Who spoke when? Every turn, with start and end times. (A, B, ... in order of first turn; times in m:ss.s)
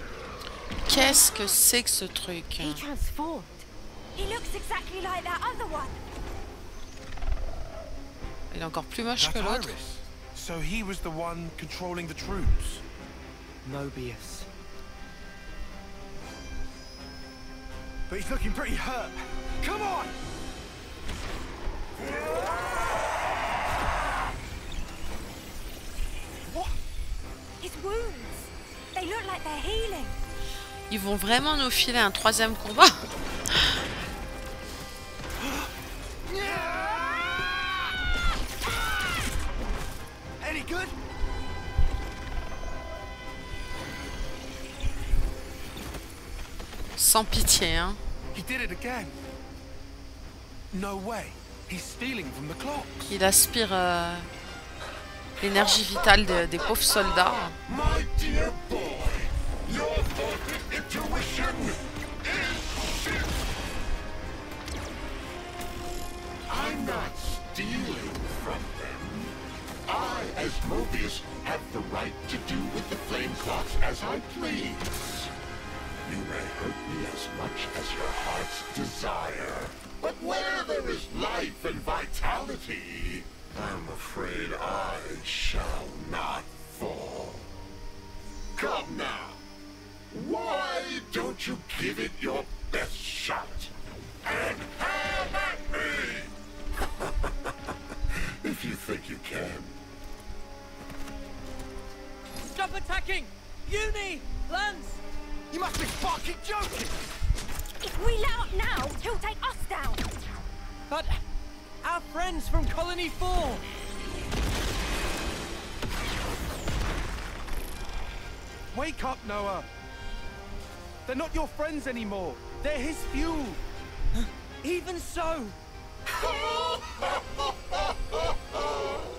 0:00.8-0:02.8 A
0:02.6-0:05.9 B
0:08.5-0:09.7 A
0:09.1-0:12.8 C
0:13.6-0:14.5 D
0:18.1-0:20.1 E
0:26.5-0:26.7 E
0:27.6-0:28.4 B
0:28.9-0:30.2 B
0:30.9-0:33.8 A
0:36.3-0:37.8 E
0:40.4-0:41.0 E
0:47.0-0:48.0 A
0:48.3-0:49.1 C
0:50.7-0:53.1 C
0:53.1-0:54.3 A
0:55.4-0:57.6 A
0:57.6-1:03.4 F
1:06.5-1:09.3 F
1:09.9-1:15.3 F
1:16.0-1:27.4 F
1:28.6-1:29.4 F
1:30.1-1:33.7 F
1:34.2-1:36.3 F
1:38.4-1:39.7 F
1:42.4-1:45.0 D
1:45.5-1:47.0 E
1:47.8-1:50.0 B
1:50.9-1:51.2 D
1:51.8-1:53.6 D
1:58.7-1:59.7 E
2:01.0-2:03.6 E
2:04.2-2:05.6 D
2:06.2-2:07.5 F